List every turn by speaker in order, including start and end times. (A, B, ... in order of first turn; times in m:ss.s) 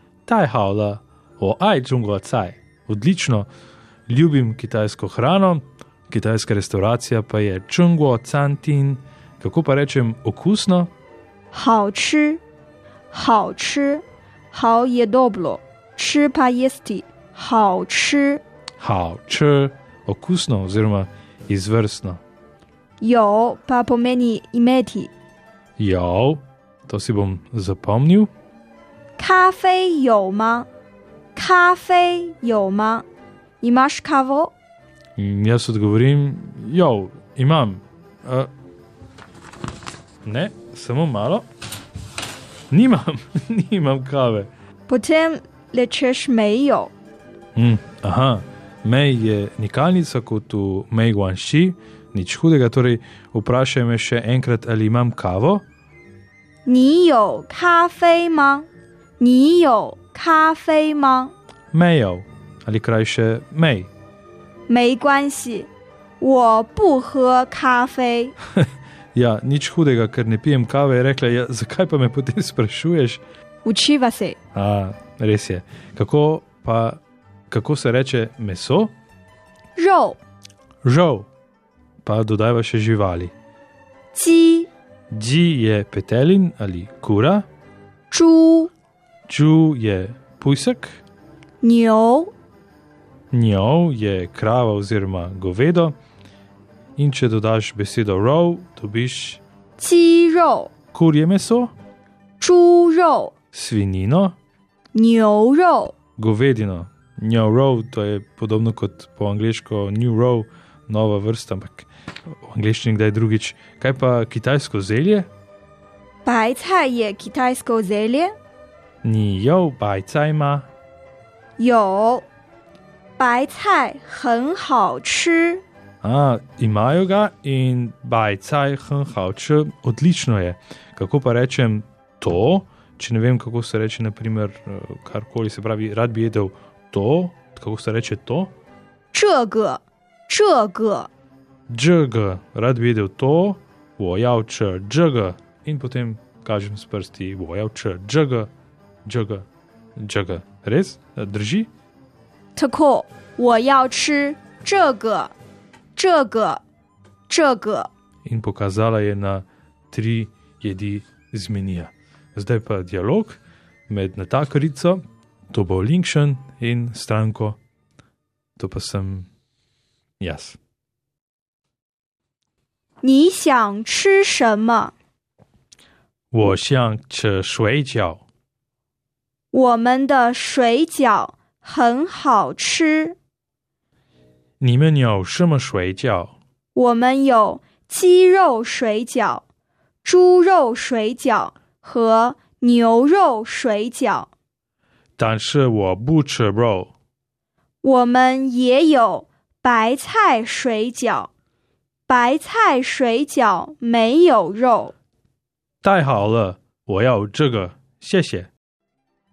0:00.2-0:03.5 A
0:04.1-0:10.9 A
0:11.5-0:12.4 B
0:13.1-0:18.4 B
0:18.8-0:22.2 A
0:23.0-0:25.1 B
0:25.8-0:28.3 A
0:29.2-0:30.7 B
0:31.3-0:33.0 B
0:33.6-0:34.5 B
0:35.2-0:38.5 A
0:40.2-0:41.5 A
0:42.7-0:44.5 A
0:44.9-0:46.9 B
0:47.5-0:55.6 A
0:56.6-0:58.7 B
0:59.2-1:01.3 B
1:01.7-1:03.9 A
1:04.7-1:05.7 B
1:06.2-1:08.4 B
1:09.1-1:13.2 A
1:13.6-1:14.4 B
1:14.5-1:18.9 A
1:19.8-1:20.2 B
1:20.8-1:21.3 A
1:22.0-1:23.3 A
1:24.1-1:24.7 B
1:25.1-1:27.4 A
1:28.1-1:28.7 B
1:29.3-1:31.0 A
1:31.6-1:32.3 B
1:33.3-1:36.0 A
1:37.0-1:39.4 A
1:39.8-1:40.7 B
1:40.9-1:41.7 A
1:42.4-1:43.3 B
1:43.5-1:44.4 A
1:44.9-1:46.0 B
1:46.2-1:51.9 A
1:52.4-1:55.3 A
1:56.2-1:58.3 B
1:59.0-2:00.7 A
2:01.6-2:02.2 B
2:03.2-2:05.6 B
2:06.0-2:18.5 A
2:19.1-2:21.1 B
2:21.7-2:28.5 A
2:29.0-2:29.4 A
2:30.0-2:31.7 A
2:32.6-2:35.3 B
2:35.9-2:36.6 B
2:37.3-2:37.9 B
2:38.2-2:47.6 A
2:48.6-2:49.3 A
2:50.2-2:50.6 A
2:53.0-2:54.9 B
2:56.3-2:58.2 A
2:59.5-3:03.2 B
3:04.6-3:06.4 A
3:06.7-3:09.4 B
3:10.0-3:14.3 B
3:15.2-3:16.9 A
3:17.8-3:21.3 B
3:22.1-3:24.9 B
3:25.8-3:28.5 A